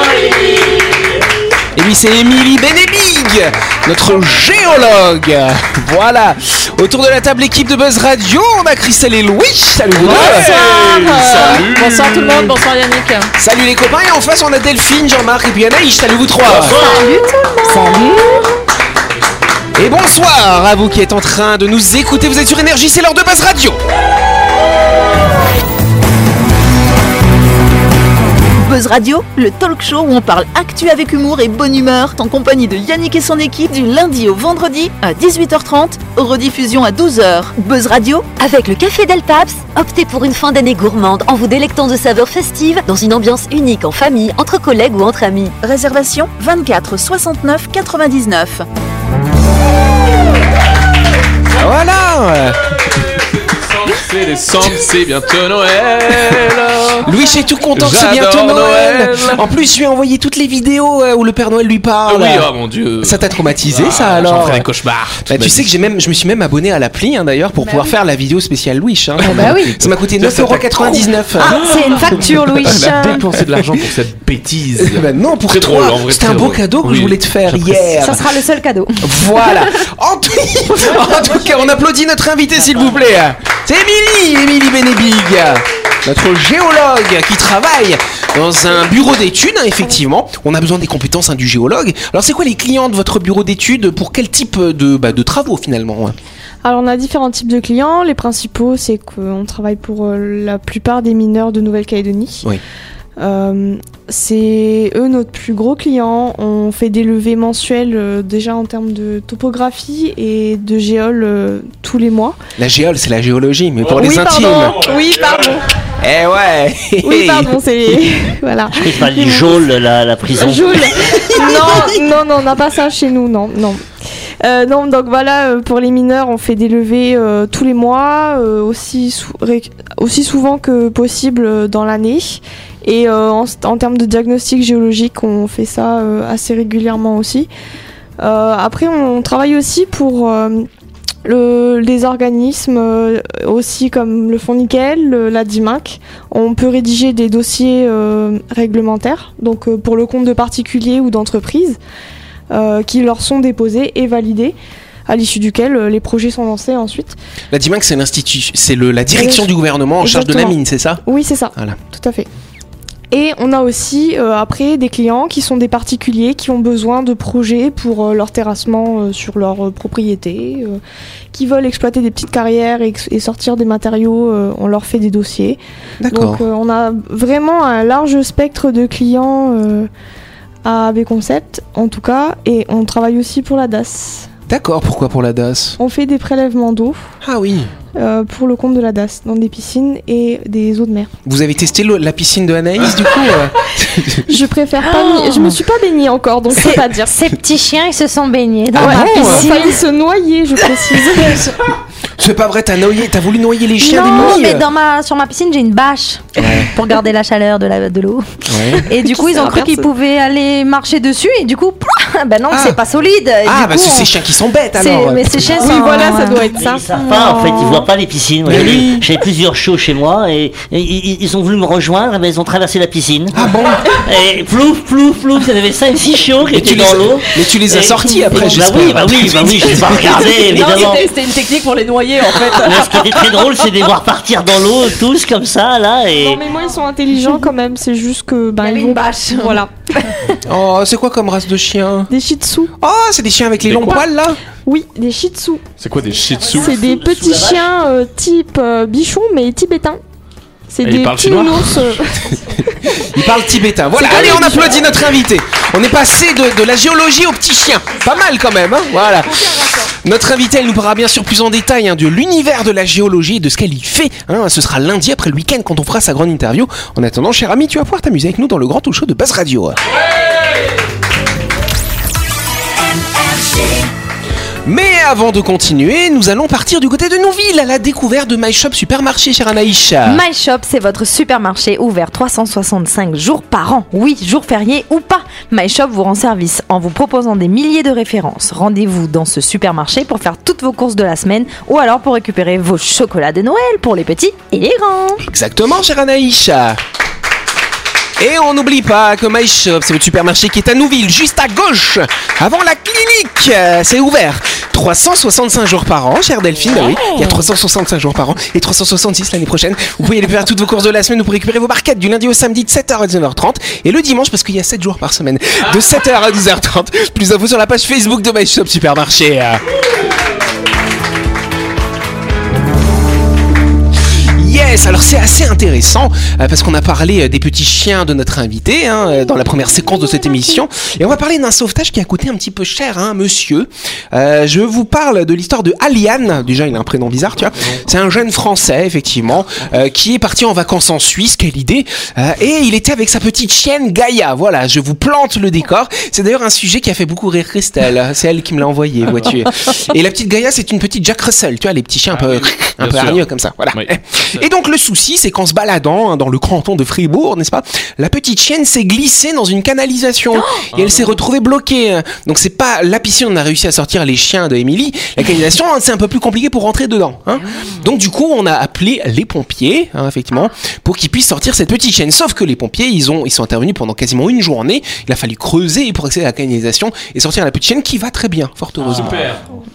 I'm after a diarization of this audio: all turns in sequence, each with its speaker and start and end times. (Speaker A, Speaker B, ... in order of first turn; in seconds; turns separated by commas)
Speaker A: 1.8-10.5, Speaker B: 9.9-12.6, Speaker C: 10.0-13.3, Speaker A: 13.4-16.8, Speaker D: 16.4-17.1, Speaker E: 16.7-18.5, Speaker A: 19.8-23.8, Speaker F: 28.6-38.3, Speaker G: 38.4-45.6, Speaker F: 45.6-48.6, Speaker A: 51.6-52.6, Speaker B: 53.2-57.1, Speaker A: 57.0-62.5, Speaker B: 57.7-59.4, Speaker B: 62.1-65.7, Speaker A: 63.0-64.6, Speaker D: 64.2-64.6, Speaker A: 65.3-71.8, Speaker E: 67.6-67.9, Speaker B: 69.2-78.0, Speaker E: 69.2-69.8, Speaker E: 70.8-73.3, Speaker A: 74.8-78.3, Speaker E: 78.0-79.1, Speaker A: 79.0-96.2, Speaker H: 96.6-102.5, Speaker H: 103.2-112.4, Speaker A: 112.6-114.9, Speaker B: 113.8-115.5, Speaker H: 114.0-115.6, Speaker A: 116.0-118.0, Speaker H: 117.0-119.6, Speaker D: 118.7-121.9, Speaker H: 120.3-123.9, Speaker H: 124.4-137.5, Speaker H: 138.2-140.7, Speaker H: 141.2-151.8, Speaker H: 152.5-154.6, Speaker H: 155.1-157.2, Speaker A: 157.5-161.0, Speaker H: 159.1-162.3, Speaker H: 163.1-170.8, Speaker H: 171.3-179.9, Speaker A: 176.0-176.4, Speaker H: 180.6-184.3, Speaker A: 184.5-185.8, Speaker H: 185.8-187.1, Speaker A: 187.2-187.7, Speaker H: 187.9-191.1, Speaker A: 191.3-194.3, Speaker H: 194.3-197.1, Speaker E: 194.8-195.6, Speaker E: 196.6-199.8, Speaker A: 198.8-199.5, Speaker H: 198.8-201.5, Speaker A: 202.2-204.7, Speaker E: 203.8-214.1, Speaker A: 206.4-206.7, Speaker A: 208.5-208.9, Speaker H: 209.1-209.8, Speaker A: 212.5-212.8, Speaker A: 213.4-215.7, Speaker E: 214.8-217.9, Speaker H: 215.6-216.6, Speaker D: 216.5-223.4, Speaker A: 218.5-219.0, Speaker H: 218.6-219.0, Speaker A: 223.3-223.9, Speaker D: 223.9-231.1, Speaker A: 226.5-230.1, Speaker C: 229.9-233.6, Speaker D: 232.6-236.4, Speaker H: 236.1-239.7, Speaker E: 238.6-240.4, Speaker A: 240.5-242.1, Speaker H: 242.1-242.7, Speaker A: 242.8-244.4, Speaker B: 243.6-244.1, Speaker H: 244.7-245.6, Speaker B: 245.8-246.8, Speaker D: 246.0-247.7, Speaker H: 246.5-250.0, Speaker H: 250.7-253.1, Speaker B: 250.8-251.9, Speaker A: 252.9-269.8, Speaker H: 254.0-254.8, Speaker E: 254.1-254.8, Speaker A: 274.7-280.2, Speaker E: 280.1-295.2, Speaker A: 295.2-296.8, Speaker A: 298.2-319.6, Speaker A: 324.4-379.3, Speaker B: 337.6-337.9, Speaker B: 349.1-349.4, Speaker B: 352.1-354.5, Speaker B: 360.7-361.2, Speaker B: 378.8-379.5